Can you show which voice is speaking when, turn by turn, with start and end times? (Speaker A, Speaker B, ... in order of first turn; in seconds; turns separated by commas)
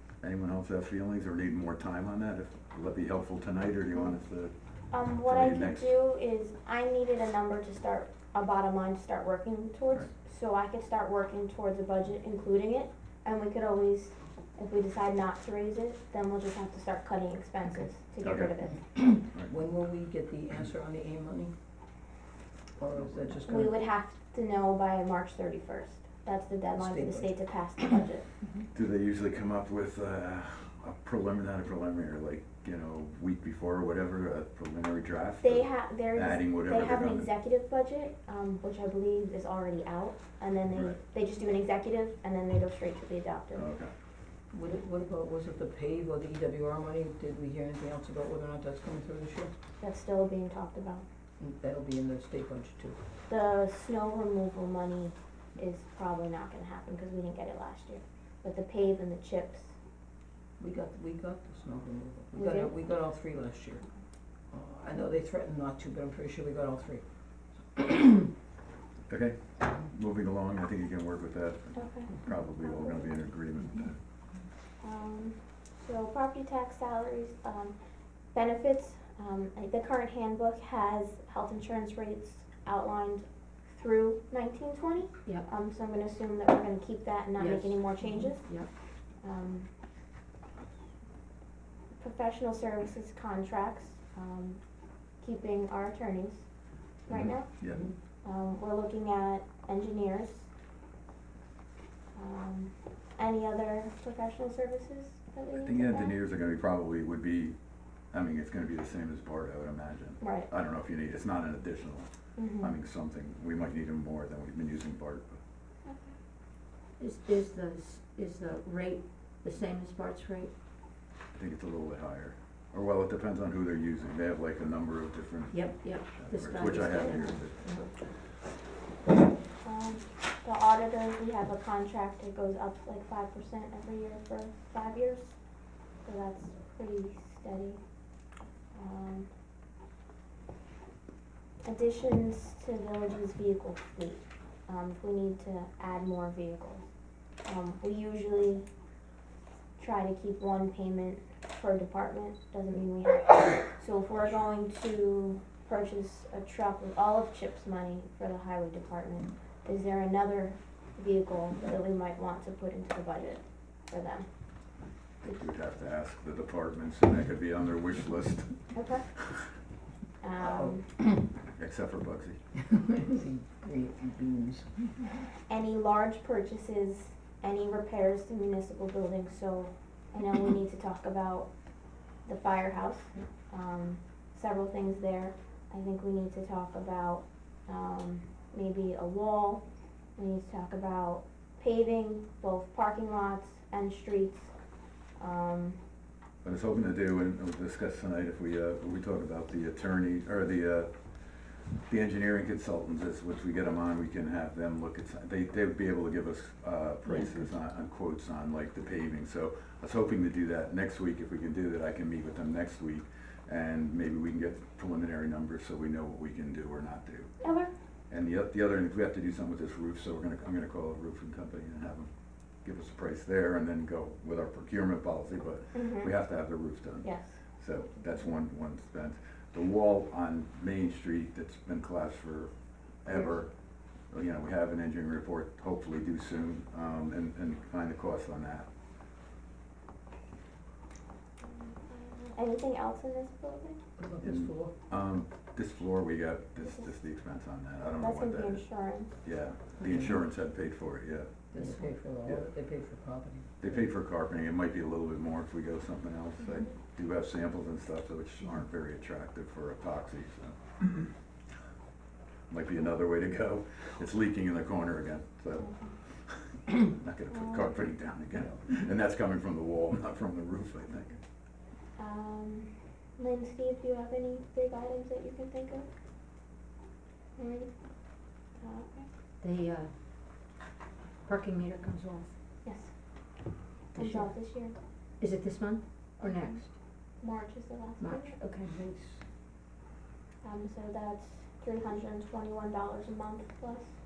Speaker A: 0.2-4.5, Speaker B: 4.9-18.8, Speaker A: 5.2-6.0, Speaker A: 18.2-18.5, Speaker A: 19.1-19.5, Speaker C: 19.3-21.5, Speaker C: 22.8-23.8, Speaker B: 23.4-28.3, Speaker C: 26.7-27.3, Speaker A: 28.7-37.3, Speaker B: 35.4-43.7, Speaker A: 40.7-41.0, Speaker A: 43.5-43.9, Speaker C: 44.5-49.5, Speaker B: 49.8-51.0, Speaker C: 51.4-53.0, Speaker B: 53.3-59.7, Speaker C: 60.6-63.8, Speaker B: 62.3-62.7, Speaker C: 64.5-67.0, Speaker C: 67.6-68.3, Speaker A: 69.1-74.0, Speaker B: 71.7-73.1, Speaker B: 74.8-77.8, Speaker B: 78.3-88.5, Speaker D: 87.4-88.7, Speaker B: 89.2-89.7, Speaker B: 92.0-94.6, Speaker B: 95.2-96.4, Speaker B: 97.1-97.6, Speaker A: 97.1-97.8, Speaker C: 97.6-97.9, Speaker B: 98.2-100.5, Speaker B: 102.1-106.2, Speaker A: 105.6-107.6, Speaker A: 108.1-115.4, Speaker B: 110.2-110.5, Speaker B: 112.4-112.8, Speaker B: 115.8-116.1, Speaker D: 117.0-120.5, Speaker A: 121.3-127.6, Speaker D: 125.5-127.9, Speaker B: 129.6-135.4, Speaker B: 136.0-137.8, Speaker B: 138.7-139.3, Speaker B: 141.6-146.9, Speaker B: 147.4-148.7, Speaker B: 149.8-164.3, Speaker A: 165.2-168.9, Speaker B: 168.7-169.1, Speaker B: 170.2-170.8, Speaker C: 170.4-171.2, Speaker A: 171.5-172.4, Speaker C: 172.7-175.1, Speaker B: 175.5-181.5, Speaker B: 182.2-189.6, Speaker B: 190.2-194.5, Speaker B: 195.2-195.8, Speaker A: 196.4-217.3, Speaker B: 217.4-217.7, Speaker A: 218.1-222.1, Speaker A: 222.6-232.5, Speaker B: 225.7-226.1, Speaker B: 227.0-227.3, Speaker A: 233.0-233.5, Speaker A: 234.1-238.7, Speaker B: 241.4-243.8, Speaker C: 244.0-244.7, Speaker A: 244.2-248.7, Speaker B: 246.6-246.9, Speaker B: 248.0-249.1, Speaker A: 249.2-251.3, Speaker C: 249.8-250.2, Speaker C: 251.5-253.8, Speaker D: 251.6-251.9, Speaker A: 252.2-252.5, Speaker A: 253.6-261.1, Speaker B: 256.4-256.7, Speaker A: 262.5-271.2, Speaker B: 265.6-265.9, Speaker B: 267.3-267.8, Speaker B: 272.0-275.9, Speaker B: 277.4-277.8, Speaker B: 278.6-279.1, Speaker D: 279.4-279.9, Speaker D: 281.2-282.3, Speaker B: 282.6-283.0, Speaker B: 283.9-284.8, Speaker D: 283.9-284.3, Speaker D: 285.2-286.7, Speaker B: 287.2-288.4, Speaker D: 288.0-288.7, Speaker C: 288.6-289.2, Speaker B: 290.4-293.9